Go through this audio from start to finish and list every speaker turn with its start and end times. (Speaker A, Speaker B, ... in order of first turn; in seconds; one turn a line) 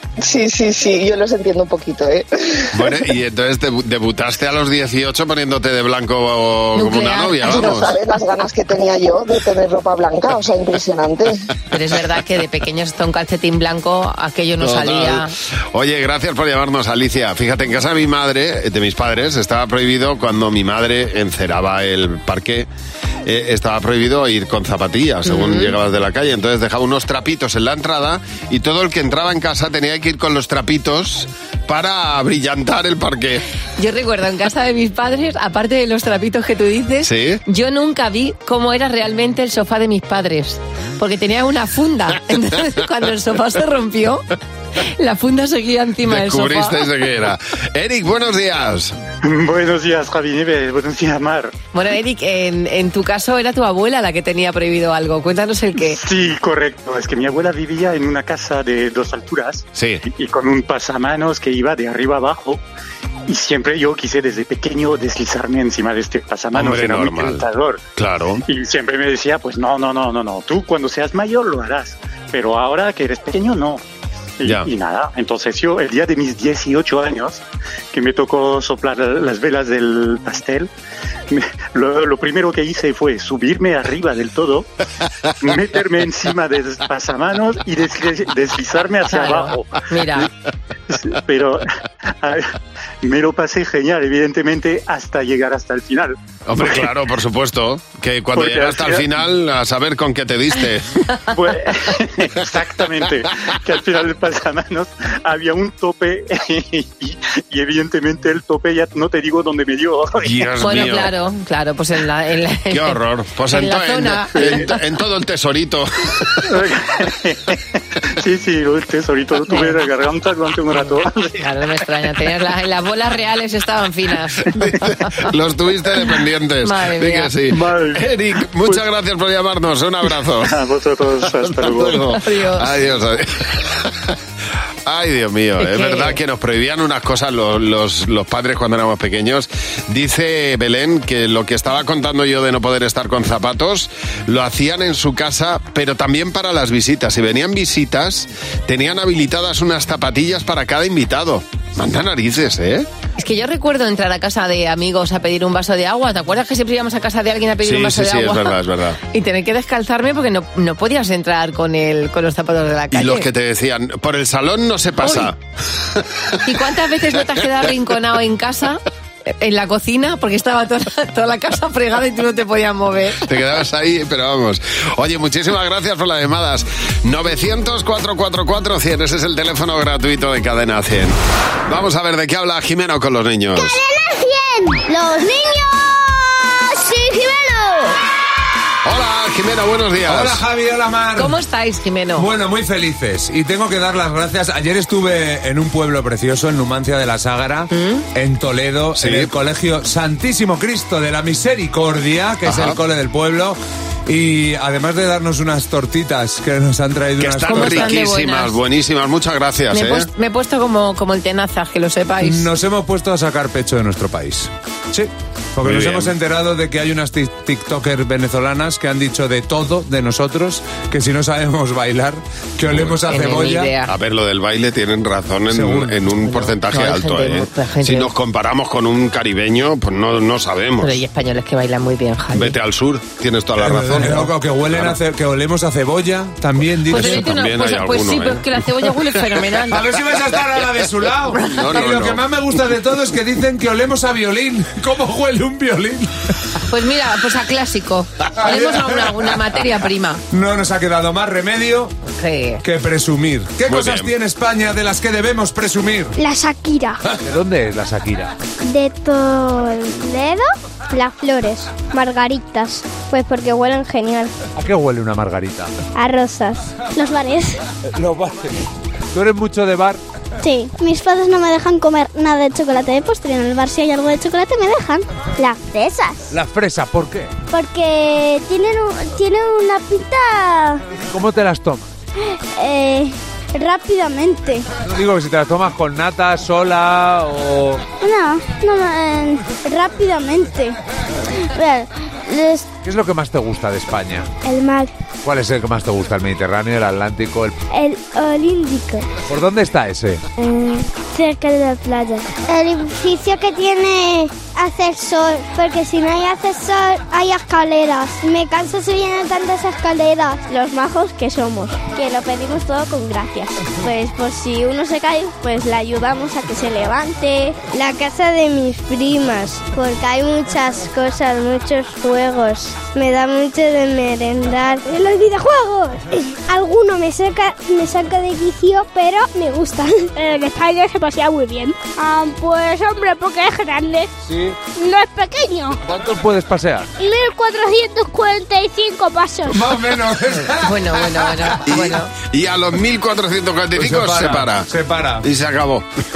Speaker A: 0.2-2.2
Speaker B: 2.7-8.0
Speaker C: 6.8-7.8
Speaker A: 7.5-11.3
Speaker C: 11.7-15.3
Speaker B: 14.6-22.7
Speaker B: 23.2-33.4
Speaker C: 25.3-25.8
Speaker C: 33.8-44.3
Speaker B: 37.0-37.4
Speaker C: 45.0-46.8
Speaker B: 46.0-48.9
Speaker D: 49.2-51.5
Speaker C: 51.7-56.0
Speaker D: 55.9-62.6
Speaker B: 59.8-60.0
Speaker D: 63.3-67.8
Speaker B: 66.5-67.4
Speaker B: 68.0-68.4
Speaker D: 68.5-73.8
Speaker D: 74.4-77.4
Speaker D: 77.9-80.7
Speaker D: 81.3-84.7
Speaker D: 85.4-89.8
Speaker C: 89.1-90.3
Speaker D: 90.9-91.7
Speaker D: 92.2-92.5
Speaker D: 93.0-96.8
Speaker B: 96.5-100.9
Speaker D: 98.3-99.1
Speaker D: 101.3-110.4
Speaker B: 110.2-111.1
Speaker C: 110.6-113.0
Speaker B: 112.7-116.5
Speaker C: 113.5-114.8
Speaker D: 114.4-114.7
Speaker D: 116.5-117.6
Speaker D: 118.1-121.4
Speaker C: 119.5-119.8
Speaker C: 121.3-124.9
Speaker B: 124.5-130.5
Speaker C: 126.6-127.3
Speaker D: 127.5-128.1
Speaker D: 130.4-132.1
Speaker B: 131.4-134.1
Speaker C: 132.1-132.7
Speaker B: 134.8-152.9
Speaker C: 135.6-136.2
Speaker C: 153.2-158.6
Speaker B: 157.6-159.0
Speaker C: 159.1-163.3
Speaker B: 162.9-165.4
Speaker C: 165.0-165.3
Speaker C: 166.4-173.3
Speaker B: 173.2-181.2
Speaker B: 181.7-183.8
Speaker E: 183.6-188.0
Speaker B: 188.8-190.4
Speaker F: 190.1-191.4
Speaker C: 191.2-192.3
Speaker F: 192.2-207.9
Speaker C: 197.7-198.1
Speaker B: 199.0-199.3
Speaker B: 202.4-202.8
Speaker B: 207.2-210.1
Speaker C: 207.5-208.6
Speaker C: 209.7-212.5
Speaker F: 212.2-223.7
Speaker B: 215.6-216.2
Speaker B: 222.7-223.0
Speaker C: 223.1-223.9
Speaker B: 223.9-231.0
Speaker F: 225.5-226.0
Speaker C: 226.2-228.1
Speaker C: 230.8-232.6
Speaker B: 232.3-235.0
Speaker F: 233.6-237.3
Speaker C: 236.9-239.9
Speaker B: 236.9-238.5
Speaker F: 239.7-246.1
Speaker C: 241.4-241.7
Speaker B: 241.5-242.3
Speaker C: 246.7-250.2
Speaker F: 248.4-249.2
Speaker F: 250.3-251.9
Speaker C: 252.1-252.6
Speaker F: 252.6-256.2
Speaker B: 253.7-254.1
Speaker E: 256.2-257.0
Speaker F: 257.1-258.3
Speaker E: 258.6-264.3
Speaker F: 264.6-265.7
Speaker E: 265.9-267.6
Speaker F: 267.9-268.6
Speaker F: 269.1-270.0
Speaker E: 270.4-276.3
Speaker F: 276.3-277.3
Speaker E: 277.5-280.9
Speaker F: 281.0-281.9
Speaker E: 282.2-284.7
Speaker F: 284.8-287.8
Speaker E: 288.0-290.8
Speaker E: 291.5-292.7
Speaker F: 292.8-294.3
Speaker E: 294.4-294.9
Speaker F: 295.2-297.6
Speaker E: 297.7-299.1
Speaker F: 299.3-300.2
Speaker E: 300.4-334.1
Speaker F: 334.2-334.6
Speaker E: 334.7-335.8
Speaker F: 335.8-336.9
Speaker E: 337.0-339.6
Speaker F: 339.5-341.6
Speaker C: 340.6-342.1
Speaker B: 341.7-344.7
Speaker F: 343.8-345.2
Speaker B: 345.2-345.9